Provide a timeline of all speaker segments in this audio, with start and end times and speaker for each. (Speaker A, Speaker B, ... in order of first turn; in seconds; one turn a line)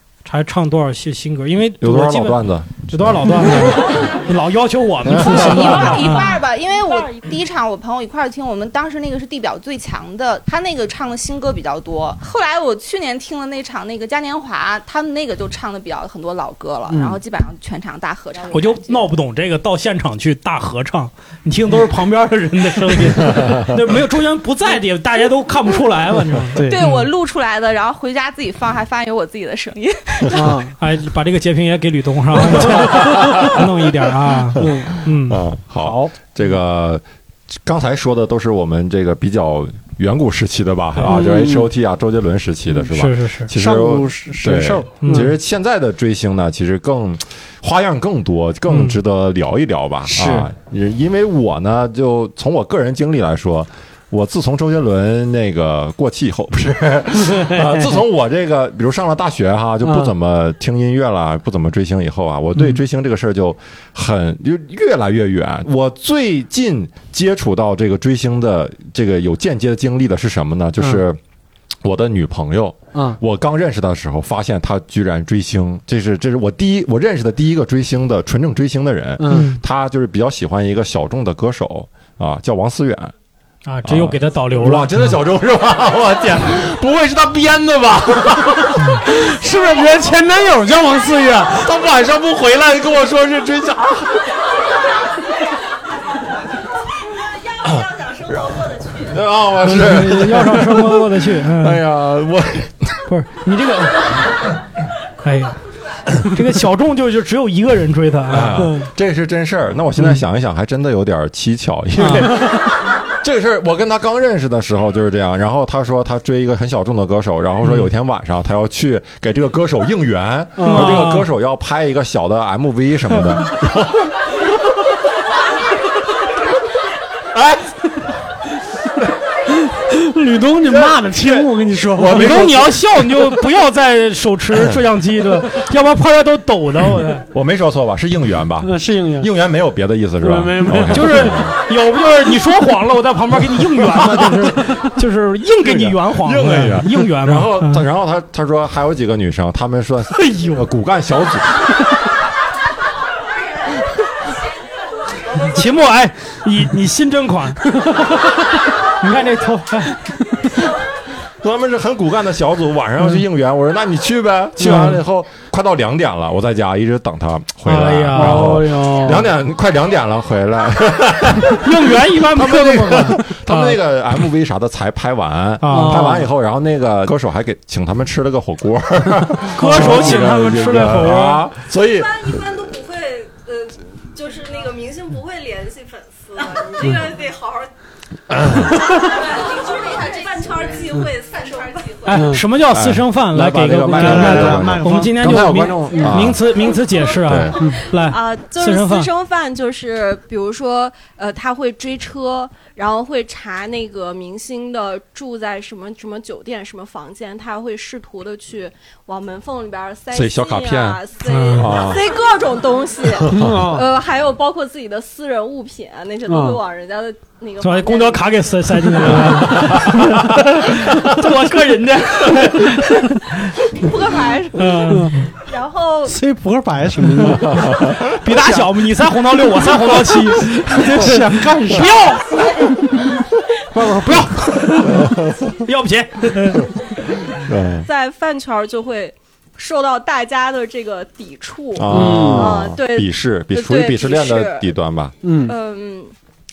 Speaker A: 0.2-6.4
Speaker B: 1.8-4.0
Speaker B: 5.0-5.8
Speaker C: 5.3-19.1
Speaker D: 16.9-17.2
Speaker A: 18.5-26.6
Speaker D: 26.6-27.0
Speaker C: 26.6-30.5
Speaker D: 30.3-30.7
Speaker A: 30.8-35.4
Speaker B: 32.6-33.5
Speaker D: 34.6-35.0
Speaker B: 35.2-37.0
Speaker D: 35.8-36.1
Speaker B: 37.6-71.2
Speaker D: 41.0-41.7
Speaker A: 42.9-43.5
Speaker D: 43.5-45.3
Speaker A: 45.0-45.3
Speaker A: 48.7-49.0
Speaker D: 50.1-50.5
Speaker D: 57.2-58.0
Speaker D: 59.8-60.1
Speaker B: 71.8-83.1
Speaker D: 72.9-73.2
Speaker D: 79.2-79.5
Speaker A: 79.3-79.6
Speaker A: 83.6-85.2
Speaker B: 83.8-88.8
Speaker D: 89.0-91.7
Speaker B: 91.6-94.2
Speaker B: 99.0-102.9
Speaker A: 99.7-101.8
Speaker A: 103.1-104.1
Speaker A: 105.2-105.6
Speaker A: 106.2-108.8
Speaker B: 108.3-112.5
Speaker A: 112.0-112.3
Speaker B: 113.2-124.0
Speaker D: 120.6-121.0
Speaker A: 120.6-121.3
Speaker B: 127.3-127.6
Speaker D: 129.8-132.7
Speaker B: 131.2-132.6
Speaker A: 132.1-137.2
Speaker B: 137.3-141.6
Speaker D: 138.6-139.3
Speaker D: 140.2-141.3
Speaker A: 140.9-147.8
Speaker B: 145.6-151.5
Speaker A: 150.1-150.6
Speaker A: 155.4-160.0
Speaker B: 161.4-182.4
Speaker D: 164.6-164.9
Speaker A: 164.6-165.0
Speaker A: 167.7-168.7
Speaker D: 168.1-169.3
Speaker A: 171.6-173.8
Speaker A: 175.6-176.2
Speaker D: 175.7-176.2
Speaker A: 179.5-181.5
Speaker E: 181.9-187.7
Speaker B: 188.3-188.7
Speaker E: 188.9-192.1
Speaker A: 192.0-199.1
Speaker D: 192.1-192.4
Speaker B: 192.7-196.4
Speaker D: 193.9-196.3
Speaker B: 197.2-197.6
Speaker E: 197.6-219.8
Speaker B: 210.1-211.0
Speaker A: 211.2-211.7
Speaker B: 211.6-212.0
Speaker D: 213.3-213.9
Speaker D: 216.2-216.6
Speaker A: 217.6-222.9
Speaker E: 223.7-226.2
Speaker A: 224.6-225.2
Speaker D: 224.9-225.1
Speaker D: 226.1-227.8
Speaker B: 227.6-228.0
Speaker A: 228.1-232.4
Speaker D: 228.3-228.7
Speaker D: 230.7-232.1
Speaker A: 233.7-236.7
Speaker B: 234.9-235.4
Speaker B: 237.4-237.8
Speaker E: 237.8-244.7
Speaker B: 241.7-245.1
Speaker D: 241.9-242.6
Speaker D: 245.2-245.5
Speaker E: 245.4-246.1